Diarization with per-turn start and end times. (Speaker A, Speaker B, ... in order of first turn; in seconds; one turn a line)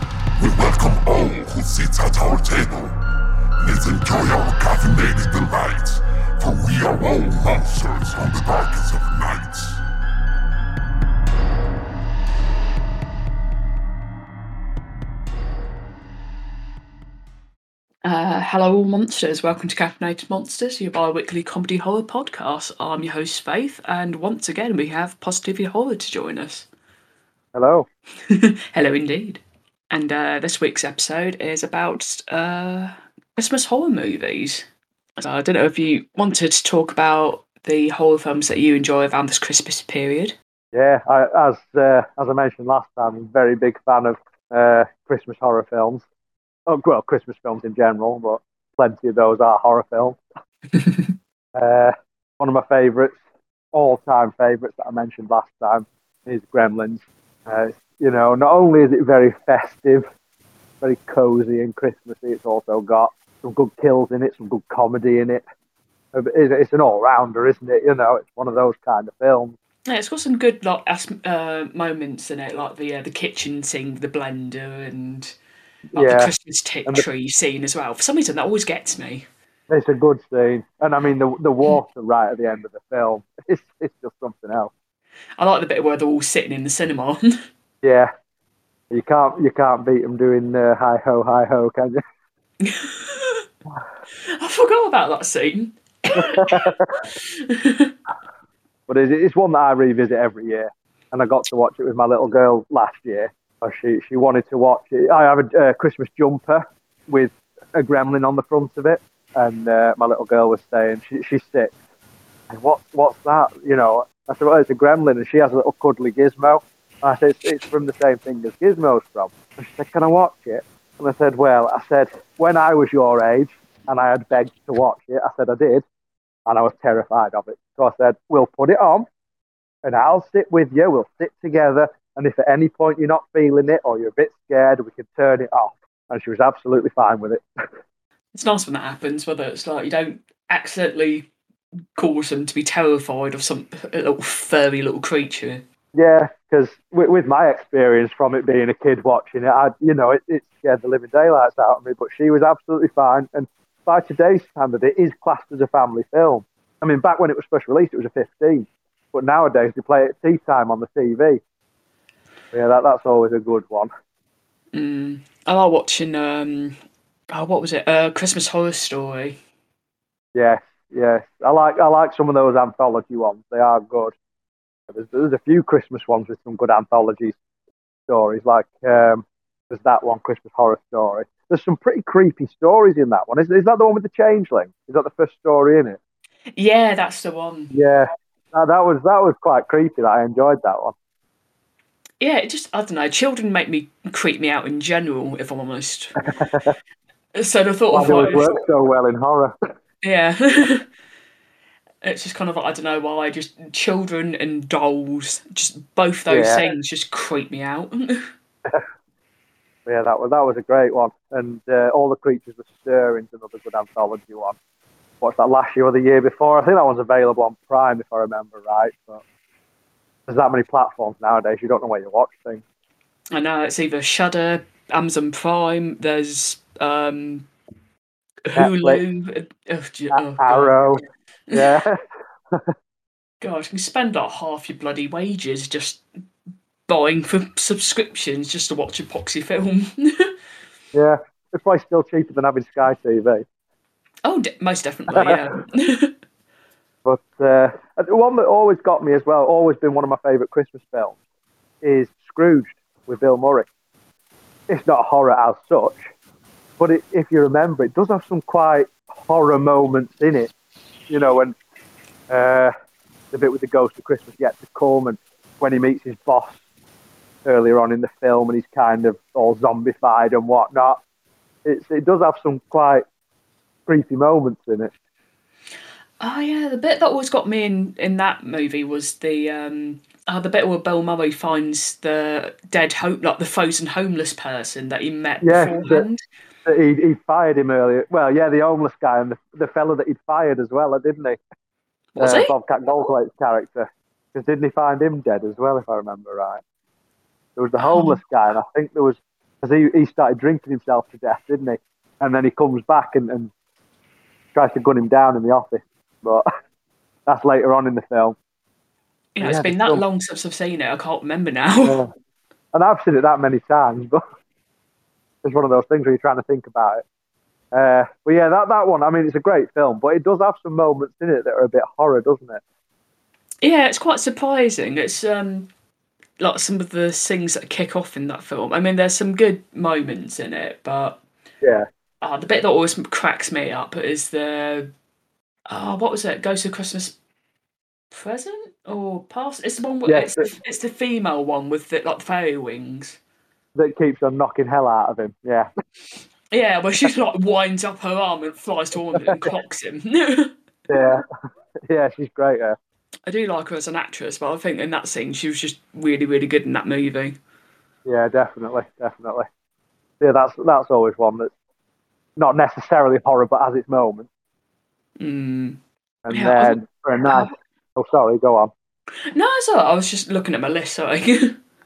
Speaker A: 0.4-3.0
Speaker A: 3.6-9.8
Speaker B: 18.0-26.7
Speaker C: 27.5-27.9
Speaker B: 28.3-34.7
Speaker B: 35.2-40.4
Speaker C: 40.7-46.0
Speaker C: 46.7-50.2
Speaker B: 50.7-51.1
Speaker C: 51.6-53.2
Speaker C: 53.7-60.0
Speaker C: 60.8-65.4
Speaker C: 66.1-69.5
Speaker B: 69.9-75.3
Speaker C: 76.0-76.3
Speaker B: 76.0-79.3
Speaker C: 79.7-84.7
Speaker B: 85.4-87.2
Speaker C: 87.8-88.1
Speaker C: 88.9-92.0
Speaker B: 92.6-93.4
Speaker B: 94.3-97.9
Speaker C: 96.2-96.8
Speaker C: 98.9-111.8
Speaker C: 112.5-125.8
Speaker C: 126.5-129.1
Speaker C: 129.8-137.4
Speaker B: 138.3-141.3
Speaker B: 142.0-145.6
Speaker C: 145.9-161.4
Speaker C: 162.5-163.9
Speaker B: 164.7-166.8
Speaker B: 167.3-169.4
Speaker C: 170.3-174.2
Speaker C: 174.9-177.4
Speaker C: 178.1-186.0
Speaker B: 186.6-187.7
Speaker C: 187.7-190.9
Speaker B: 192.2-196.2
Speaker C: 196.4-196.7
Speaker B: 197.3-198.5
Speaker C: 197.9-199.5
Speaker B: 200.0-200.9
Speaker B: 202.0-208.2
Speaker C: 206.3-206.6
Speaker C: 209.9-214.6
Speaker C: 215.2-219.2
Speaker C: 220.3-222.6
Speaker B: 223.3-227.5
Speaker B: 228.5-230.9
Speaker C: 228.6-229.0
Speaker C: 230.1-231.0
Speaker C: 231.5-232.0
Speaker B: 233.4-236.0
Speaker B: 236.9-240.3
Speaker C: 240.9-243.5
Speaker B: 244.2-246.1
Speaker C: 245.1-245.4
Speaker C: 247.1-251.2
Speaker C: 251.8-253.7
Speaker C: 254.7-256.1
Speaker C: 256.8-260.5
Speaker C: 261.1-261.6
Speaker C: 262.3-262.7
Speaker C: 263.3-266.6
Speaker C: 267.4-271.0
Speaker C: 271.6-273.1
Speaker C: 273.9-274.9
Speaker B: 276.2-286.2
Speaker C: 285.4-286.1
Speaker C: 286.7-291.4
Speaker B: 292.1-292.5
Speaker C: 292.2-296.6
Speaker C: 297.6-303.5
Speaker B: 297.8-298.2
Speaker C: 304.5-306.4
Speaker C: 307.3-308.4
Speaker B: 309.4-312.0
Speaker C: 309.4-310.0
Speaker C: 311.9-312.1
Speaker C: 312.7-314.2
Speaker C: 315.4-317.1
Speaker C: 317.7-322.6
Speaker B: 323.6-325.7
Speaker B: 326.4-331.2
Speaker B: 332.2-334.9
Speaker B: 335.7-337.2
Speaker B: 338.1-343.2
Speaker C: 340.1-340.4
Speaker C: 343.8-345.7
Speaker B: 346.5-350.5
Speaker C: 350.9-351.2
Speaker C: 351.9-352.8
Speaker B: 353.3-357.4
Speaker C: 358.1-359.5
Speaker C: 360.2-361.5
Speaker C: 362.4-364.3
Speaker B: 365.2-365.8
Speaker C: 366.2-368.7
Speaker B: 366.3-367.5
Speaker B: 369.3-371.6